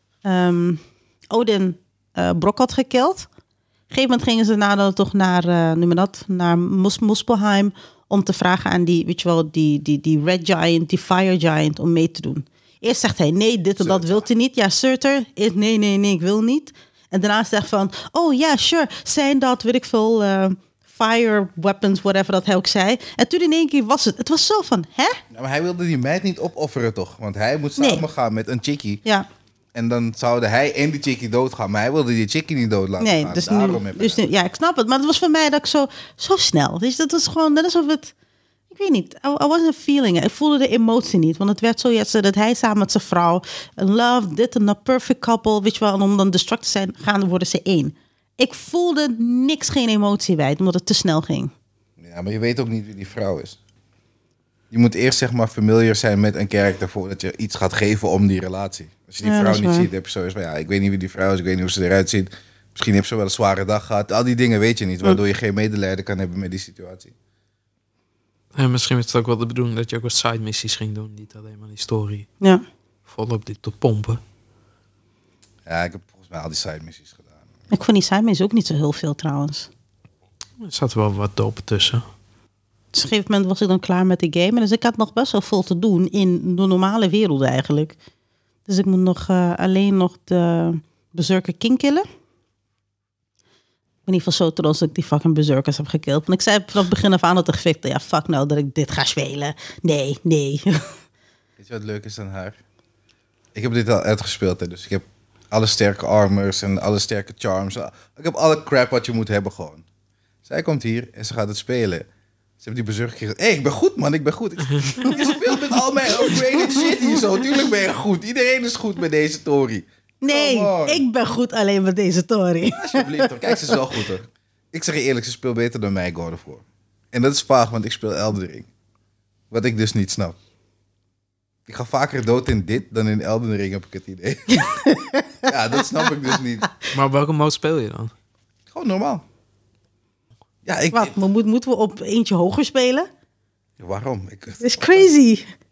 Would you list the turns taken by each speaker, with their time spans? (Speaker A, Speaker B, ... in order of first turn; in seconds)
Speaker A: 0.2-3.3, 3.9-25.2, 27.8-28.0, 33.0-38.1, 38.7-51.5, 59.2-59.9, 77.7-79.7, 82.9-88.0, 88.7-92.1, 94.1-100.9, 116.2-117.1, 120.2-123.8, 134.5-136.1, 140.9-143.1, 144.6-145.5
Speaker B: 13.8-14.3, 25.3-29.0, 29.8-34.2, 52.0-53.6, 54.7-67.1, 75.7-77.4, 101.6-102.6, 103.5-109.8, 110.5-112.1, 112.6-121.0, 122.7-128.7, 129.5-130.4, 131.7-134.7, 135.5-136.7, 138.7-139.2, 140.7-141.1, 143.8-145.1
Speaker C: 68.5-72.3, 73.1-74.2, 80.6-82.0, 136.9-138.1